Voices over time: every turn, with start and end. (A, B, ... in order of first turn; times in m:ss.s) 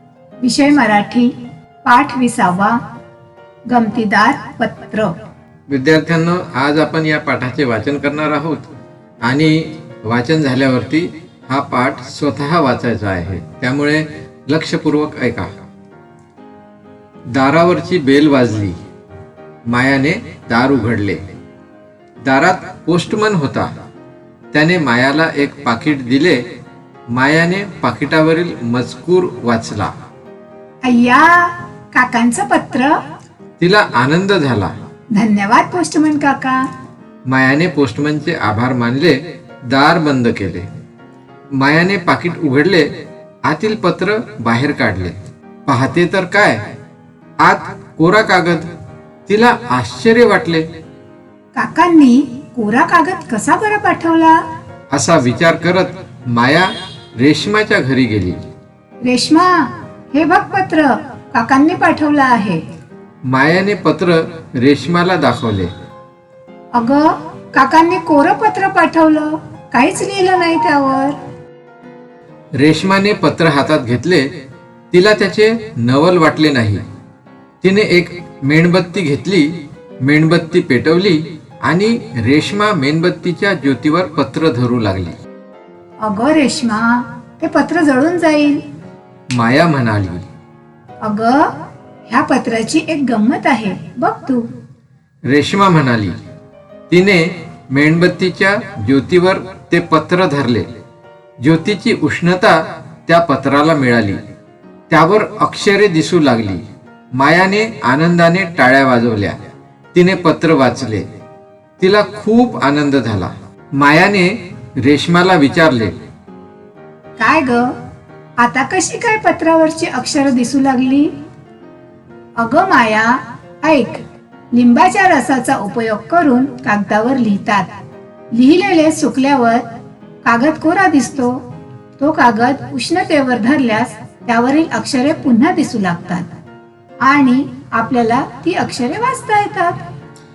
0:00.4-0:01.3 A
0:01.8-0:02.8 A
0:03.7-0:05.1 A
0:05.7-0:08.7 B
0:09.2-0:15.5 B
0:17.4-0:18.8 B
0:19.7-0:21.2 B
0:22.3-0:23.7 B
0:24.5-0:26.4 B
0:27.1-0:29.9 B
0:30.8-0:32.9 A
0:33.6-0:34.7 B
0:35.2-0:36.6 A
0:37.3-0:40.7 B
0:41.6-0:42.9 B
0:43.5-0:46.6 B
0:47.4-0:48.7 B
0:49.3-0:50.7 B
0:51.6-0:54.4 A
0:54.9-0:58.4 B
0:59.0-1:02.6 A
1:03.3-1:05.7 B
1:06.8-1:11.2 A
1:12.6-1:14.3 B
1:14.9-1:16.8 B
1:17.6-1:25.2 B
1:26.0-1:28.6 A
1:29.3-1:30.2 B
1:31.0-1:31.5 A
1:32.1-1:34.4 A
1:35.3-1:36.2 B
1:36.9-1:40.7 B
1:41.4-1:44.2 B
1:44.9-1:46.6 B
1:47.2-1:49.4 B
1:49.9-1:51.1 B
1:51.8-1:56.0 B
1:57.2-1:57.7 A
1:58.4-2:01.1 A
2:02.4-2:04.0 A
2:04.5-2:07.7 A
2:08.3-2:09.6 A
2:10.2-2:11.4 A
2:12.0-2:16.3 A
2:17.0-2:19.8 A